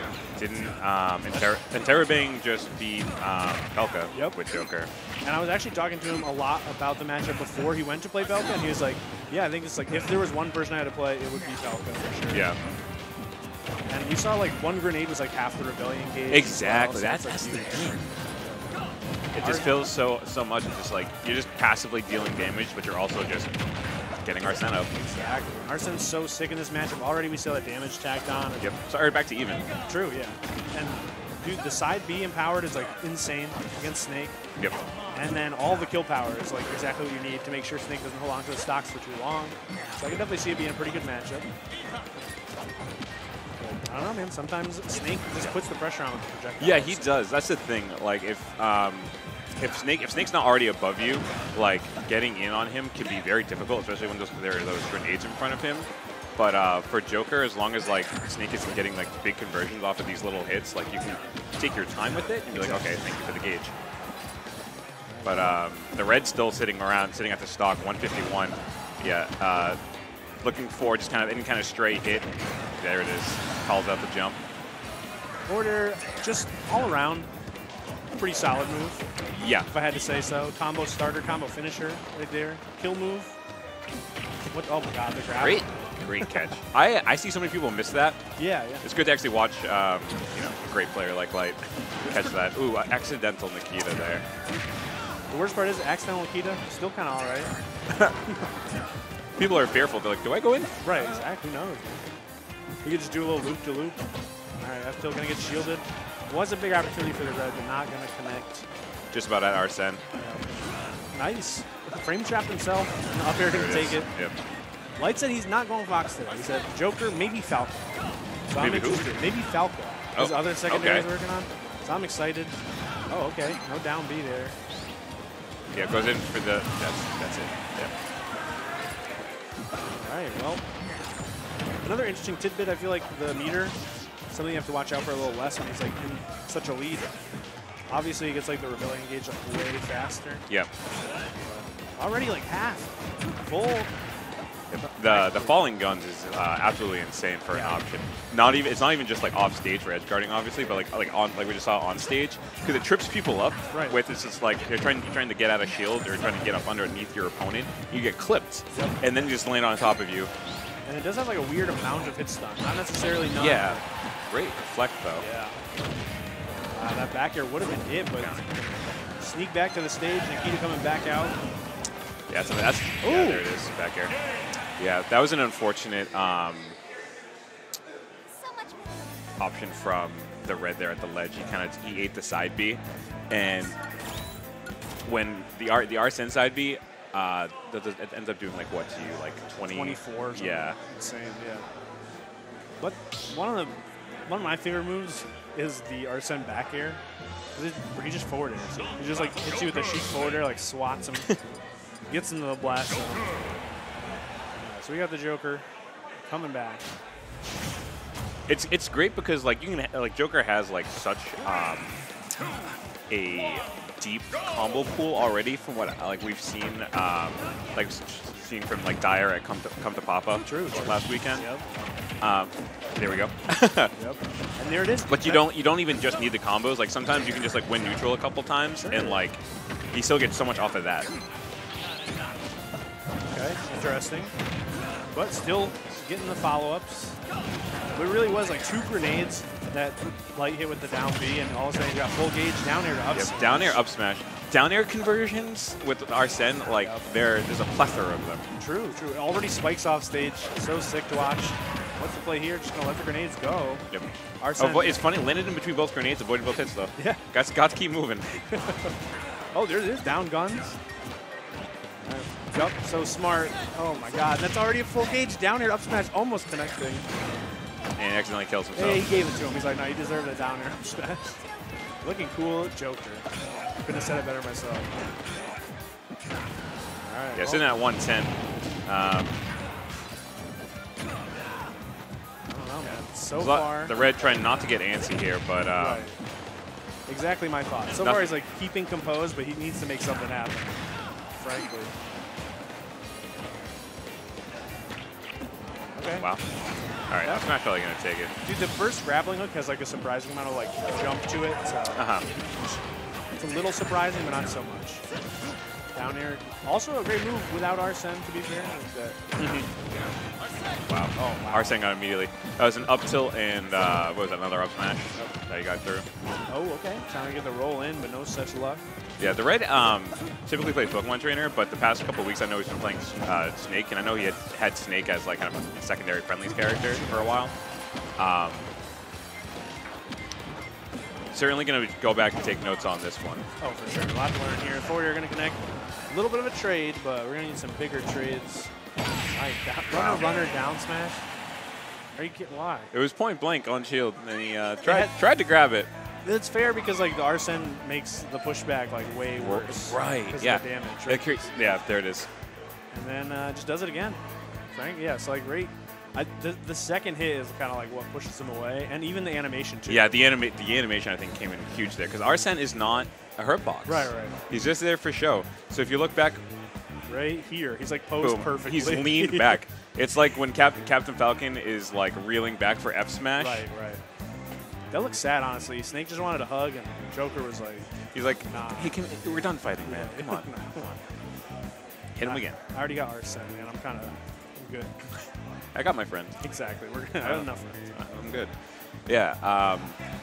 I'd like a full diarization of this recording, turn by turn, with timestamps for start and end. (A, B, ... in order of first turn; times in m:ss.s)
0:00.4-0:04.9 A
0:04.1-0:04.4 B
0:05.2-0:12.5 B
0:12.3-0:12.6 A
0:13.9-0:18.7 B
0:16.3-0:18.1 A
0:19.3-0:23.6 A
0:19.4-0:19.8 B
0:24.2-0:24.9 A
0:25.0-0:28.7 B
0:28.6-0:29.7 A
0:29.9-0:34.4 B
0:34.6-0:34.8 A
0:35.1-0:41.5 B
0:43.6-0:47.2 B
0:46.6-1:03.7 A
1:02.5-1:02.9 B
1:05.1-1:05.6 B
1:05.2-1:09.8 A
1:10.4-1:14.4 A
1:15.5-1:17.3 B
1:18.1-1:19.0 B
1:19.3-1:19.7 A
1:19.7-1:23.3 B
1:24.5-1:25.6 B
1:25.3-1:28.2 A
1:28.4-1:28.9 B
1:28.8-1:34.3 A
1:32.0-1:32.4 B
1:35.3-1:37.5 B
1:37.9-1:38.2 A
1:39.4-1:40.7 A
1:40.8-1:42.0 B
1:42.8-1:44.0 B
1:44.6-1:48.7 B
1:49.1-1:50.0 A
1:50.2-1:50.4 B
1:51.1-1:54.1 B
1:53.4-1:54.4 A
1:55.0-1:57.9 B
1:58.5-2:02.6 B
1:58.6-1:59.1 A
2:00.2-2:01.1 A
2:03.1-2:04.6 B
2:05.7-2:07.9 A
2:10.0-2:10.6 B
2:11.8-2:13.8 B
2:14.3-2:17.1 B
2:17.9-2:20.4 B
2:21.4-2:23.9 B
2:24.7-2:40.3 A
2:25.1-2:25.6 B
2:27.5-2:27.8 B
2:33.7-2:34.0 B
2:38.7-2:39.0 B
2:40.9-2:43.8 B
2:43.4-2:45.3 A
2:45.2-2:45.6 B
2:46.7-2:51.4 B
2:48.2-2:48.5 A
2:52.3-2:54.1 A
2:53.0-2:53.5 B
2:54.8-2:56.8 A
2:59.4-3:03.8 A
3:05.0-3:10.8 A
3:09.7-3:11.7 B
3:12.8-3:17.0 B
3:17.6-3:21.3 B
3:22.1-3:23.4 B
3:24.6-3:25.6 B
3:26.2-3:26.8 B
3:28.5-3:32.0 A
3:33.1-3:41.5 A
3:40.4-3:41.7 B
3:42.2-3:43.9 A
3:44.0-3:45.4 B
3:45.1-3:49.4 A
3:48.8-3:49.2 B
3:49.9-3:51.1 A
3:53.3-3:54.3 B
3:55.1-3:57.2 B
3:57.9-4:03.8 B
4:03.1-4:08.5 A
4:06.8-4:07.1 B
4:08.6-4:13.8 B
4:13.9-4:18.5 A
4:14.4-4:15.0 B
4:18.5-4:18.9 B
4:19.5-4:20.8 B
4:22.0-4:27.1 B
4:28.0-4:29.2 A
4:28.8-4:31.4 B
4:32.0-4:33.3 B
4:33.8-4:34.9 B
4:37.0-4:37.6 B
4:37.3-4:39.5 A
4:42.5-4:44.7 B
4:42.8-4:46.1 A
4:45.7-4:46.2 B
4:47.1-4:50.8 B
4:48.0-4:48.3 A
4:51.3-4:51.9 B
4:56.0-4:56.3 B
4:57.1-4:58.3 A
4:57.2-4:57.5 B
4:58.4-5:02.1 B
5:01.9-5:02.3 A
5:03.4-5:05.0 B
5:06.0-5:09.2 B
5:09.4-5:09.7 A
5:10.9-5:16.1 A
5:11.2-5:11.8 B
5:16.5-5:18.8 B
5:19.2-5:27.5 A
5:26.7-5:27.4 B
5:28.2-5:28.7 A
5:31.3-5:33.5 A
5:33.6-5:38.7 B
5:39.3-5:41.2 B
5:39.9-5:40.3 A
5:42.1-5:42.9 B
5:42.9-5:45.9 A
5:44.8-5:45.1 B
5:46.2-5:51.4 B
5:49.4-5:52.3 A
5:52.9-5:54.2 B
5:54.7-6:00.2 B
5:59.9-6:06.4 A
6:03.9-6:04.4 B
6:07.1-6:09.6 B
6:08.2-6:13.6 A
6:13.4-6:14.0 B
6:14.9-6:17.9 B
6:18.1-6:21.0 A
6:18.5-6:19.1 B
6:19.9-6:20.9 B
6:22.2-6:22.6 A
6:22.2-6:25.2 B
6:25.8-6:26.4 A
6:26.4-6:28.0 B
6:27.2-6:28.6 A
6:29.1-6:30.0 A